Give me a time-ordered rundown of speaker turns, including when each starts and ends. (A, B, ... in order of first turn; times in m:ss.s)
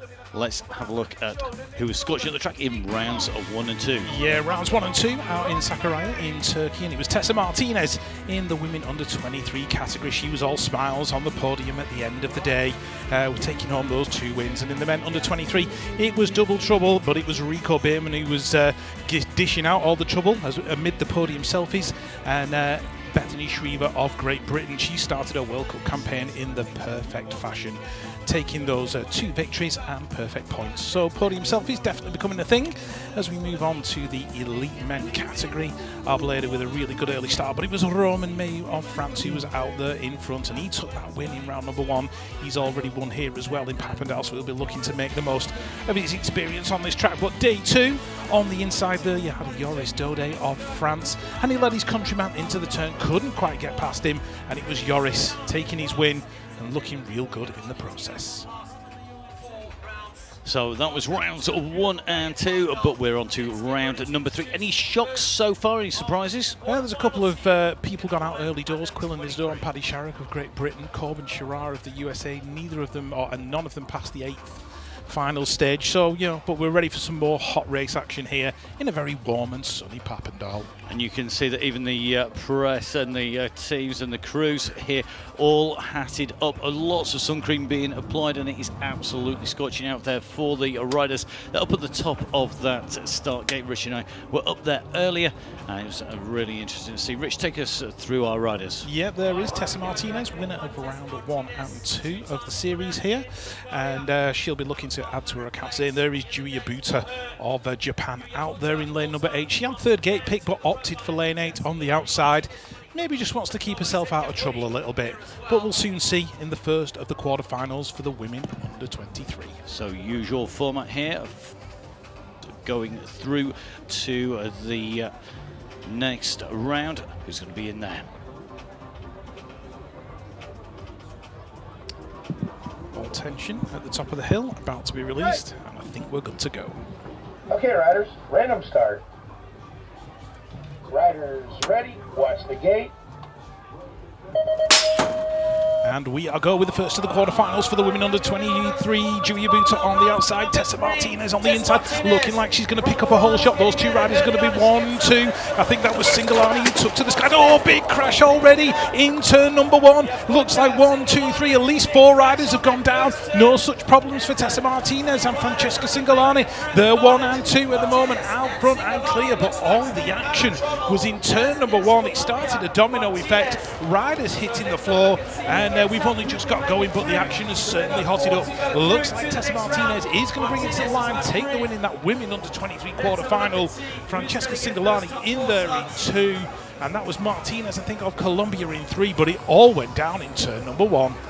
0:00.3-0:04.1 A
0:04.0-0:58.5 B
1:00.4-1:06.6 A
1:06.6-1:20.7 B
1:20.9-1:38.9 A
1:38.8-1:59.6 B
1:59.6-2:01.6 A
2:02.4-2:08.1 A
2:12.9-2:16.8 B
2:17.5-2:19.0 C
2:20.9-2:22.9 C
2:25.8-3:11.2 B